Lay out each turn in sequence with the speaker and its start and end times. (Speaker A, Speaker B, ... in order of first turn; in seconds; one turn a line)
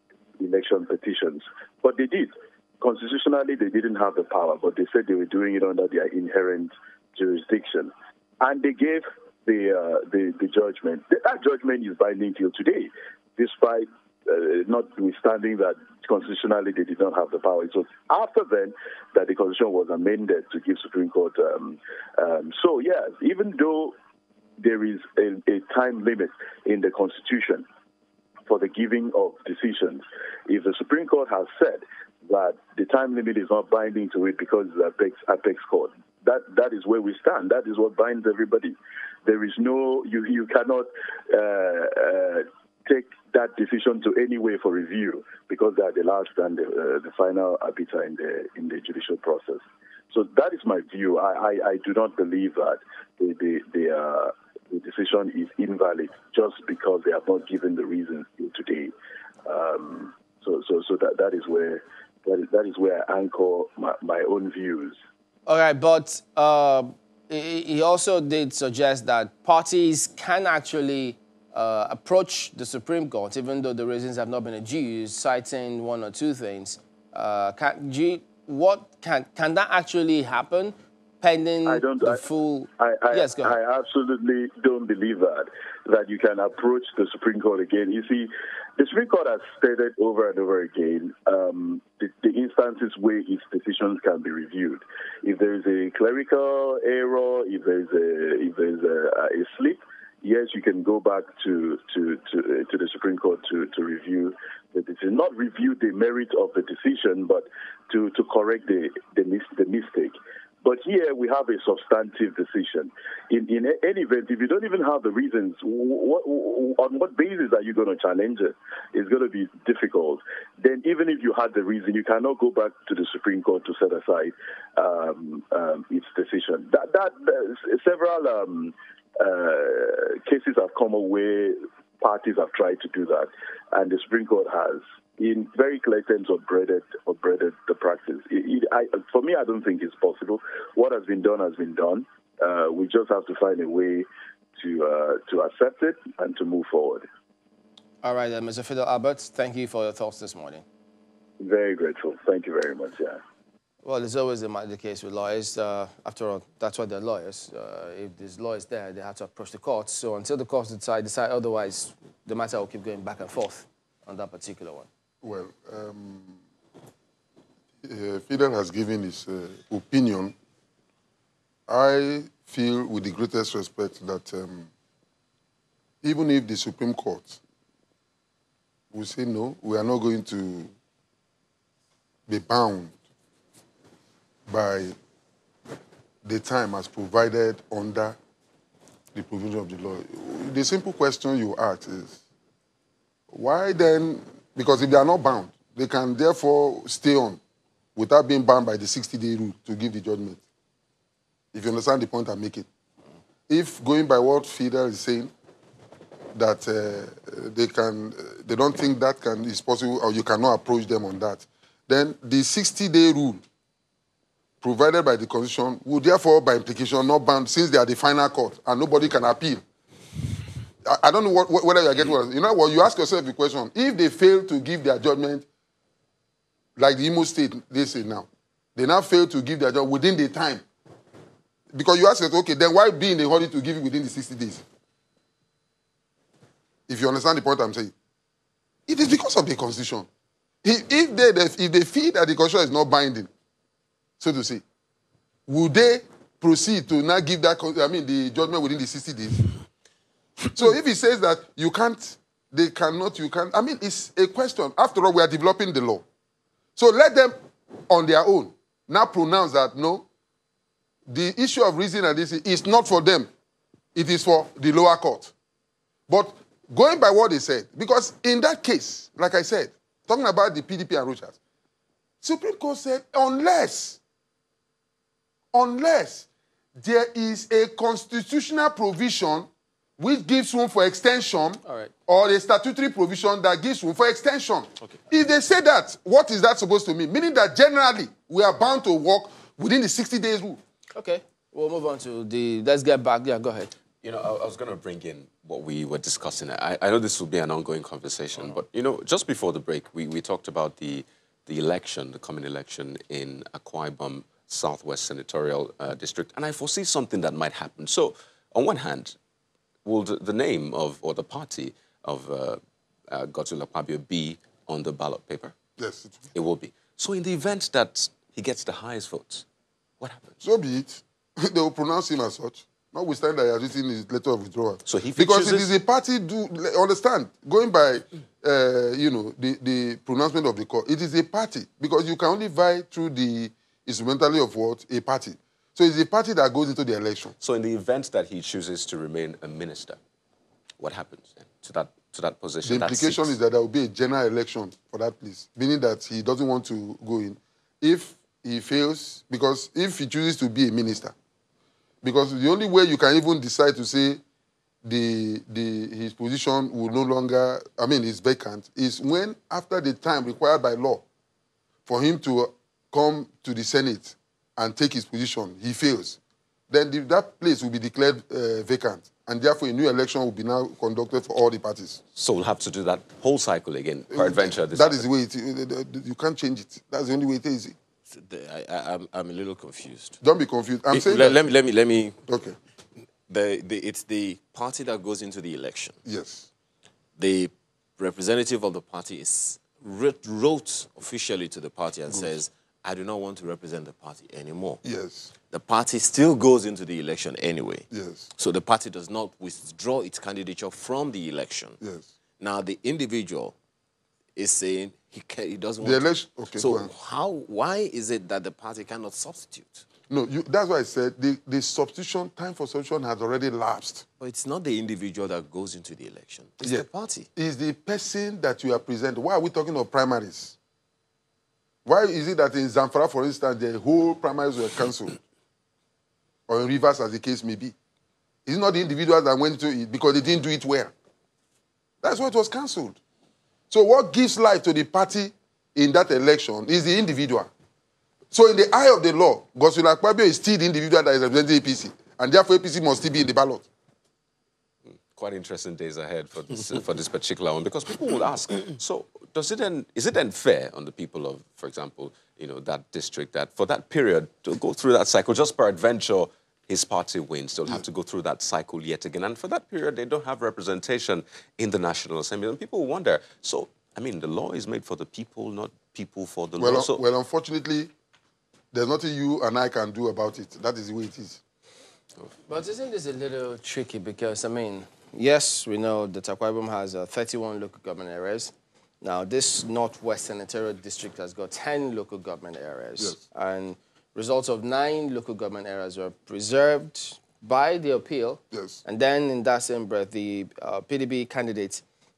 Speaker A: 0.4-23.9
Speaker A: 24.6-27.6
Speaker A: 28.5-58.9
Speaker A: 59.5-65.0
Speaker B: 65.5-83.5
Speaker A: 81.7-82.2
Speaker A: 82.8-147.1
Speaker B: 148.0-150.6
Speaker A: 151.4-153.2
Speaker B: 153.8-164.9
Speaker C: 165.2-166.4
Speaker C: 167.8-170.3
Speaker C: 171.7-174.7
Speaker C: 176.0-177.4
Speaker C: 178.9-180.7
Speaker C: 182.3-182.9
Speaker C: 184.5-184.9
Speaker C: 186.2-188.2
Speaker C: 189.1-192.2
Speaker C: 193.3-197.4
Speaker C: 197.9-200.4
Speaker C: 201.5-202.7
Speaker C: 203.5-205.3
Speaker C: 206.3-213.4
Speaker C: 214.6-219.6
Speaker C: 220.8-225.4
Speaker C: 226.8-230.6
Speaker C: 231.7-234.6
Speaker C: 236.9-237.9
Speaker C: 238.9-240.1
Speaker C: 240.6-243.3
Speaker C: 244.2-244.6
Speaker C: 245.5-249.4
Speaker C: 250.5-256.0
Speaker C: 256.8-257.4
Speaker C: 257.9-260.1
Speaker C: 261.1-263.3
Speaker C: 263.9-265.3
Speaker C: 266.1-271.4
Speaker C: 272.2-274.0
Speaker C: 275.5-290.6
Speaker B: 281.6-281.9
Speaker B: 290.9-293.7
Speaker D: 294.0-309.1
Speaker D: 309.8-315.5
Speaker C: 315.8-316.2
Speaker D: 316.3-319.4
Speaker D: 320.0-320.4
Speaker C: 320.4-337.3
Speaker D: 324.9-325.7
Speaker D: 337.4-340.0
Speaker D: 340.8-343.3
Speaker C: 342.6-351.1
Speaker C: 352.0-354.2
Speaker C: 354.8-361.0
Speaker C: 361.9-366.2
Speaker C: 366.7-372.0
Speaker D: 372.1-375.0
Speaker C: 374.1-377.8
Speaker E: 378.1-380.2
Speaker C: 380.2-381.4
Speaker E: 380.9-382.3
Speaker C: 382.2-382.6
Speaker E: 383.3-386.0
Speaker C: 386.0-386.5
Speaker E: 387.2-394.8
Speaker C: 392.1-392.4
Speaker C: 394.8-395.3
Speaker E: 395.5-401.8
Speaker C: 397.9-398.3
Speaker C: 401.8-402.1
Speaker E: 402.4-403.5
Speaker E: 404.4-409.8
Speaker C: 405.8-406.9
Speaker C: 410.1-414.0
Speaker E: 414.2-417.3
Speaker C: 417.4-420.5
Speaker C: 421.8-425.2
Speaker C: 426.5-427.7
Speaker C: 428.4-430.9
Speaker C: 432.0-433.0
Speaker C: 433.7-437.5
Speaker C: 438.3-443.6
Speaker D: 444.9-467.0
Speaker C: 466.6-467.9
Speaker C: 468.7-471.4
Speaker B: 472.5-491.8
Speaker C: 488.5-488.8